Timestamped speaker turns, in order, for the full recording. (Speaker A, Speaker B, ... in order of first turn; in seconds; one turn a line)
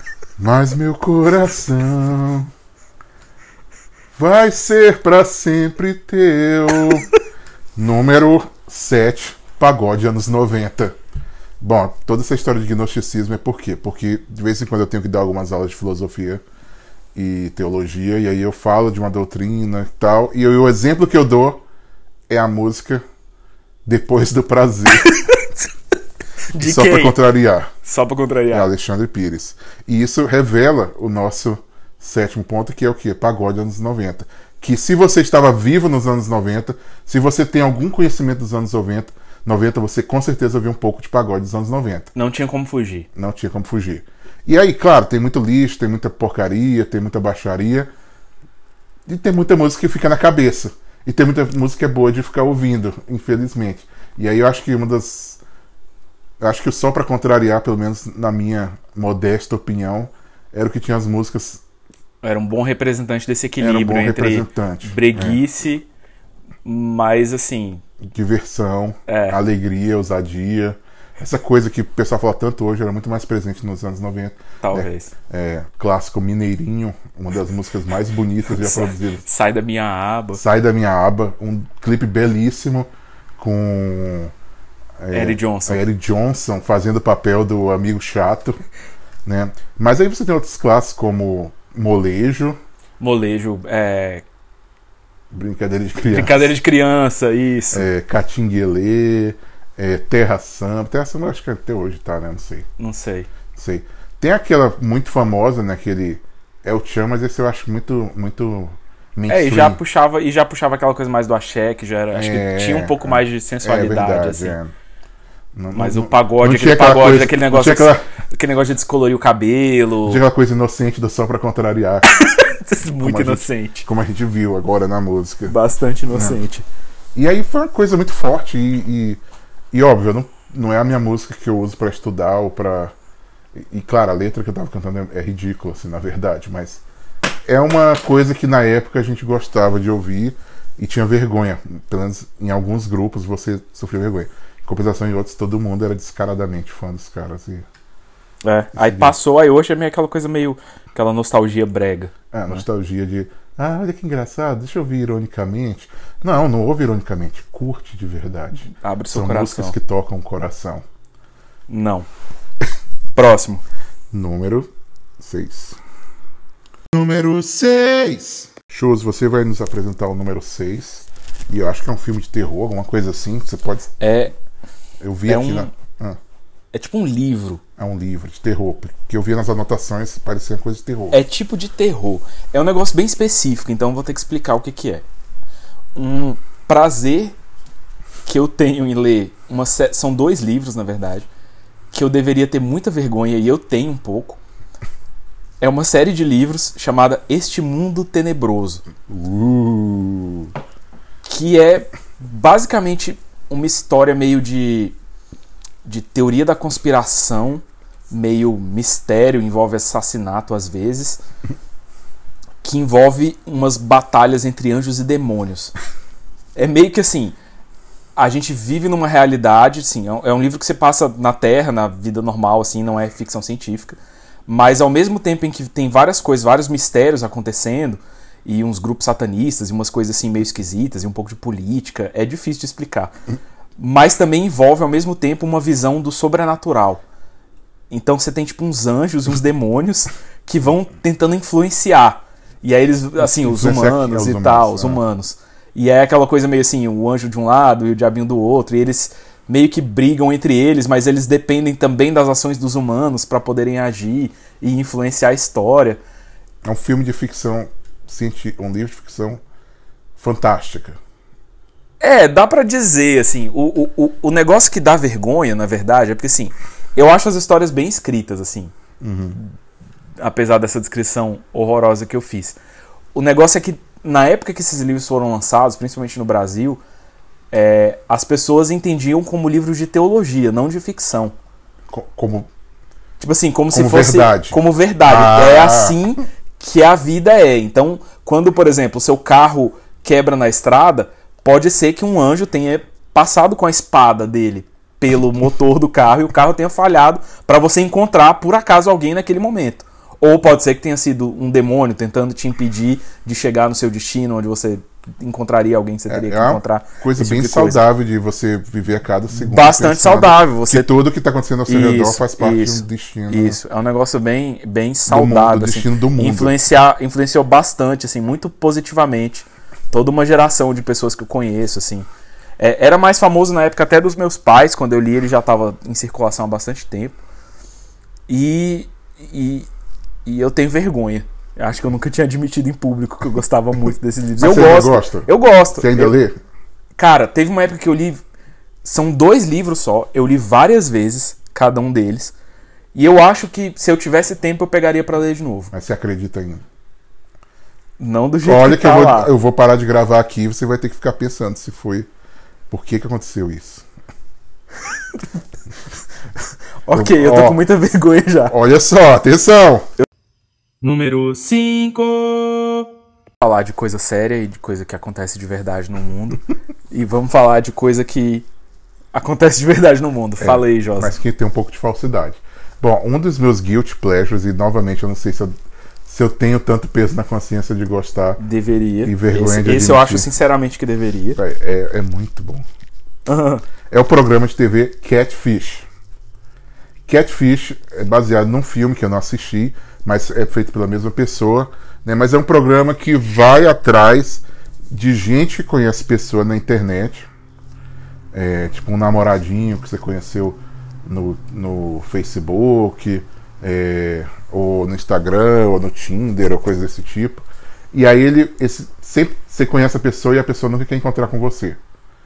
Speaker A: 0.4-2.5
Speaker A: 4.2-7.1
Speaker A: 7.8-11.0
Speaker A: 11.6-16.4
Speaker A: 17.1-21.6
Speaker A: 22.3-23.0
Speaker A: 23.9-25.1
Speaker B: 25.0-25.6
Speaker B: 26.5-27.2
Speaker A: 26.6-27.7
Speaker B: 27.8-28.7
Speaker A: 28.5-42.1
Speaker B: 42.1-43.1
Speaker A: 43.1-47.9
Speaker A: 49.1-55.4
Speaker A: 56.4-61.6
Speaker B: 62.2-65.9
Speaker A: 63.6-65.4
Speaker B: 66.7-67.8
Speaker A: 68.1-79.2
Speaker B: 69.1-69.4
Speaker B: 74.6-75.1
Speaker B: 78.5-80.4
Speaker A: 80.4-84.3
Speaker A: 85.0-88.6
Speaker B: 85.1-85.8
Speaker A: 89.2-92.6
Speaker B: 93.0-94.2
Speaker A: 95.3-96.5
Speaker B: 96.1-97.9
Speaker A: 97.7-102.7
Speaker B: 102.8-103.3
Speaker A: 103.5-109.8
Speaker B: 109.3-114.6
Speaker A: 112.1-114.7
Speaker A: 115.5-118.0
Speaker B: 115.7-120.2
Speaker A: 120.0-122.1
Speaker B: 122.1-123.9
Speaker A: 123.0-125.5
Speaker B: 125.5-126.7
Speaker A: 126.1-126.4
Speaker A: 127.2-129.2
Speaker A: 129.7-132.9
Speaker A: 133.6-136.8
Speaker A: 137.5-147.7
Speaker B: 148.4-152.6
Speaker A: 148.8-149.2
Speaker A: 152.3-160.8
Speaker B: 158.7-159.8
Speaker B: 161.7-162.1
Speaker B: 163.2-163.6
Speaker A: 164.1-165.8
Speaker A: 166.9-173.9
Speaker B: 174.0-174.3
Speaker A: 175.0-176.2
Speaker B: 175.3-175.7
Speaker B: 176.7-177.6
Speaker A: 177.8-181.2
Speaker B: 181.1-185.1
Speaker B: 185.9-187.4
Speaker B: 188.3-191.3
Speaker B: 191.9-194.4
Speaker B: 195.6-198.8
Speaker A: 199.1-200.5
Speaker B: 201.3-205.0
Speaker B: 205.8-211.2
Speaker B: 212.6-215.7
Speaker B: 216.6-217.4
Speaker B: 218.2-233.1
Speaker B: 233.8-237.0
Speaker B: 237.9-256.0
Speaker A: 243.2-245.0
Speaker A: 256.6-259.4
Speaker A: 260.2-261.0
Speaker B: 262.0-268.7
Speaker A: 269.0-269.4
Speaker B: 270.2-272.6
Speaker B: 273.1-276.8
Speaker B: 277.5-281.4
Speaker A: 281.9-282.5
Speaker B: 283.2-307.8
Speaker A: 283.7-286.0
Speaker A: 306.1-313.6
Speaker B: 309.3-310.9
Speaker B: 311.7-322.1
Speaker A: 315.1-316.6
Speaker B: 322.6-327.2
Speaker B: 328.3-329.7
Speaker B: 330.3-336.1
Speaker A: 334.4-336.4
Speaker B: 337.0-338.2
Speaker B: 338.8-342.3
Speaker B: 342.9-345.7
Speaker A: 345.7-346.6
Speaker B: 348.0-349.3
Speaker A: 348.4-352.1
Speaker A: 352.7-353.9
Speaker B: 356.9-358.6
Speaker A: 356.9-357.6
Speaker A: 358.5-359.9
Speaker B: 360.8-362.9
Speaker B: 363.4-368.5
Speaker B: 369.1-371.1
Speaker A: 370.4-375.5
Speaker A: 376.1-378.4
Speaker B: 378.4-381.4
Speaker A: 379.0-380.3
Speaker A: 381.4-382.7
Speaker B: 383.3-383.6
Speaker A: 383.9-385.9
Speaker A: 387.1-397.3
Speaker A: 398.3-411.8